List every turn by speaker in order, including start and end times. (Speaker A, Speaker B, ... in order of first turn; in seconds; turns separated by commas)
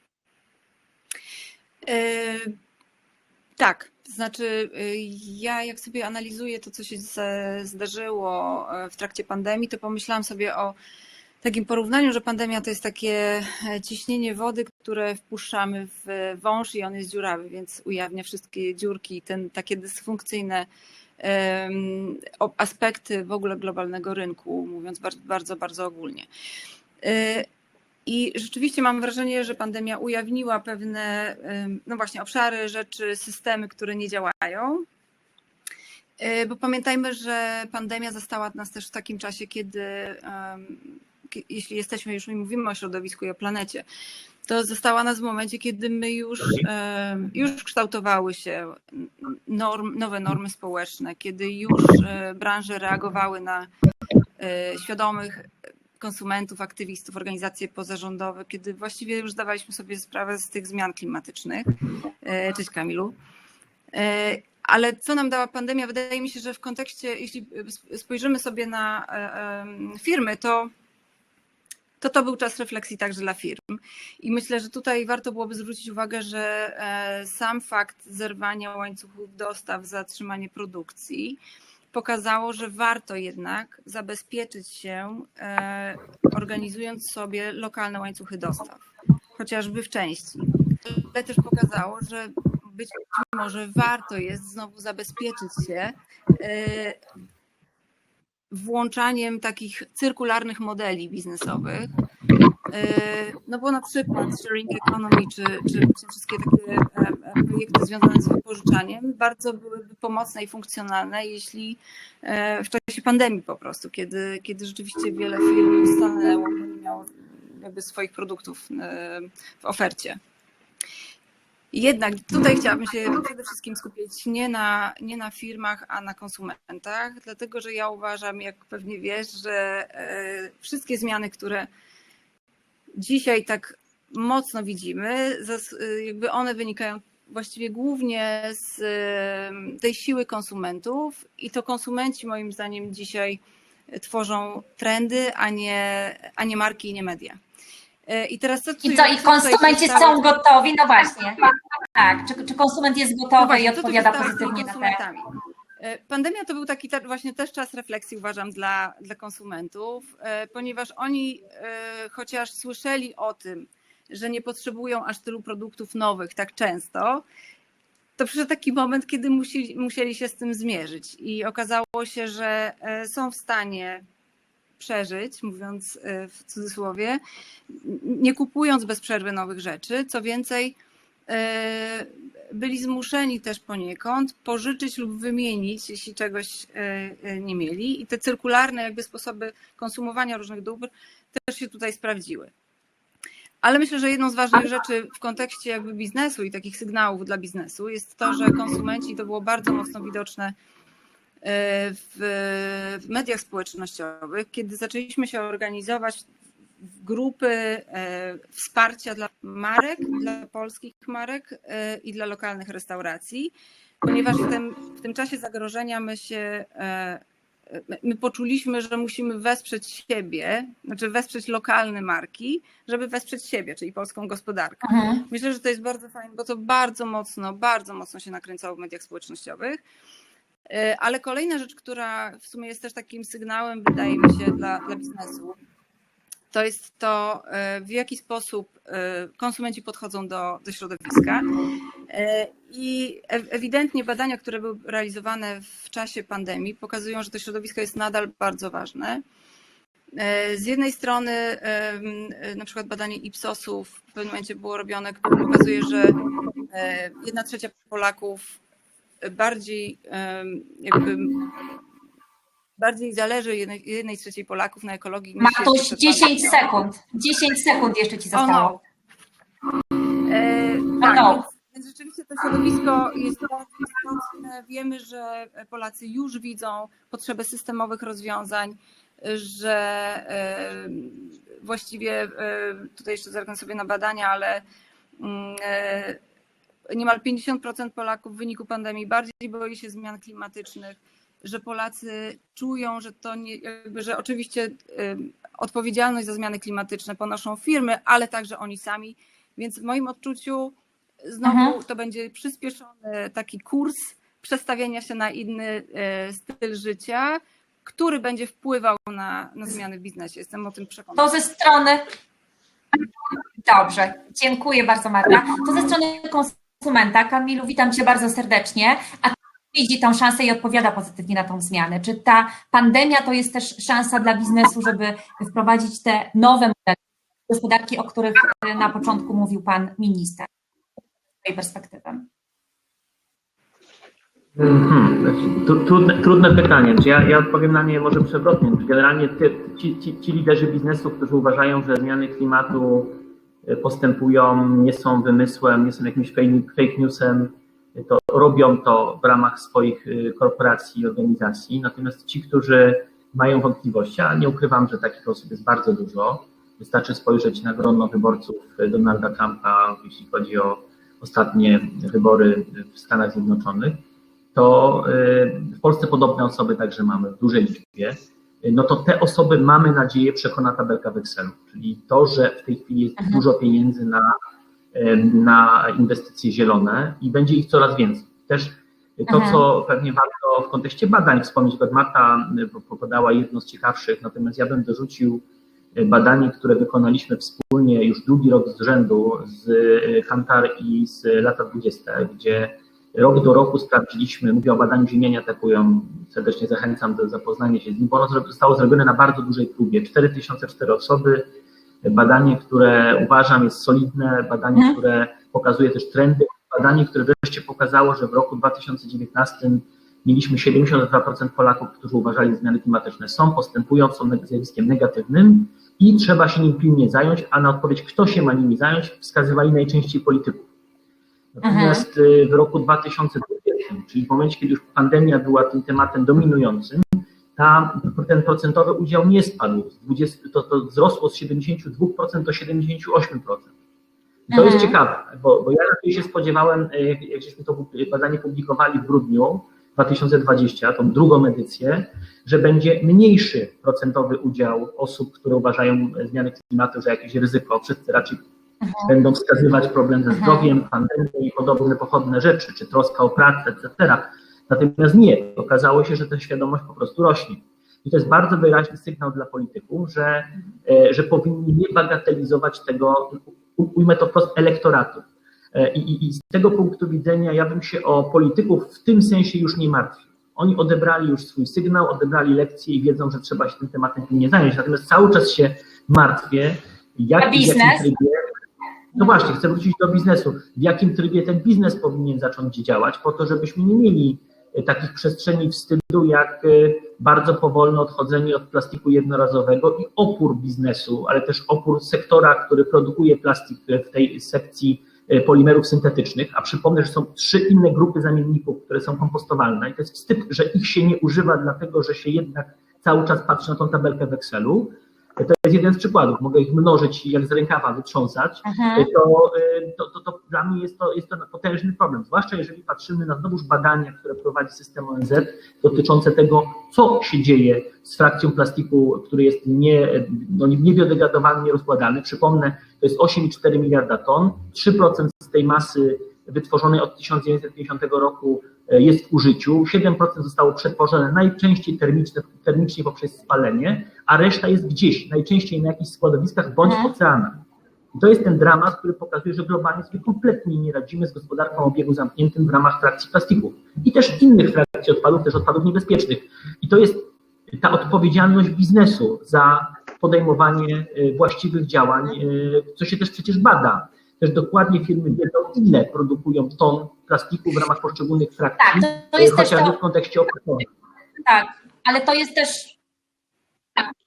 Speaker A: 1.9-2.5, Speaker A: 3.6-10.8, Speaker A: 11.4-20.7, Speaker A: 21.2-26.3, Speaker A: 27.0-27.5, Speaker A: 28.1-34.9, Speaker A: 36.2-43.9, Speaker A: 44.5-53.7, Speaker A: 54.4-55.4, Speaker A: 56.0-61.7, Speaker A: 62.2-63.1, Speaker A: 63.9-70.7, Speaker A: 72.0-81.4, Speaker A: 81.9-88.8, Speaker A: 89.4-97.0, Speaker A: 98.5-101.9, Speaker A: 102.7-120.2, Speaker A: 121.7-131.7, Speaker A: 133.0-143.4, Speaker A: 143.9-147.4, Speaker A: 148.1-150.3, Speaker B: 148.8-155.0, Speaker A: 153.4-155.2, Speaker A: 155.8-167.2, Speaker A: 168.2-174.0, Speaker A: 174.8-180.8, Speaker A: 181.3-192.5, Speaker A: 193.6-200.5, Speaker A: 201.4-206.3, Speaker A: 207.0-229.8, Speaker B: 224.8-225.2, Speaker A: 230.7-235.6, Speaker A: 236.5-241.5, Speaker A: 242.1-249.2, Speaker A: 250.2-256.2, Speaker A: 256.7-258.6, Speaker A: 259.2-261.5, Speaker A: 262.8-266.7, Speaker B: 265.4-268.7, Speaker A: 268.3-268.8, Speaker A: 270.3-284.6, Speaker B: 271.0-271.4, Speaker A: 285.2-286.2, Speaker A: 286.9-311.4, Speaker B: 301.4-301.8, Speaker B: 311.2-312.0, Speaker B: 313.6-327.0, Speaker B: 327.5-330.5, Speaker B: 331.4-332.3, Speaker C: 334.6-364.0, Speaker C: 364.5-374.3, Speaker B: 373.2-373.4, Speaker C: 374.9-385.4, Speaker B: 379.3-379.6, Speaker C: 385.9-401.5, Speaker C: 402.0-420.7, Speaker C: 421.6-433.7, Speaker B: 421.6-422.1, Speaker C: 434.5-448.4, Speaker B: 434.5-435.0, Speaker B: 448.8-449.1, Speaker C: 449.0-478.4, Speaker B: 450.3-450.7, Speaker B: 477.4-478.1, Speaker C: 479.1-537.6, Speaker B: 508.6-509.1, Speaker B: 536.9-537.1, Speaker C: 538.1-560.9, Speaker B: 558.8-560.0, Speaker B: 561.4-563.0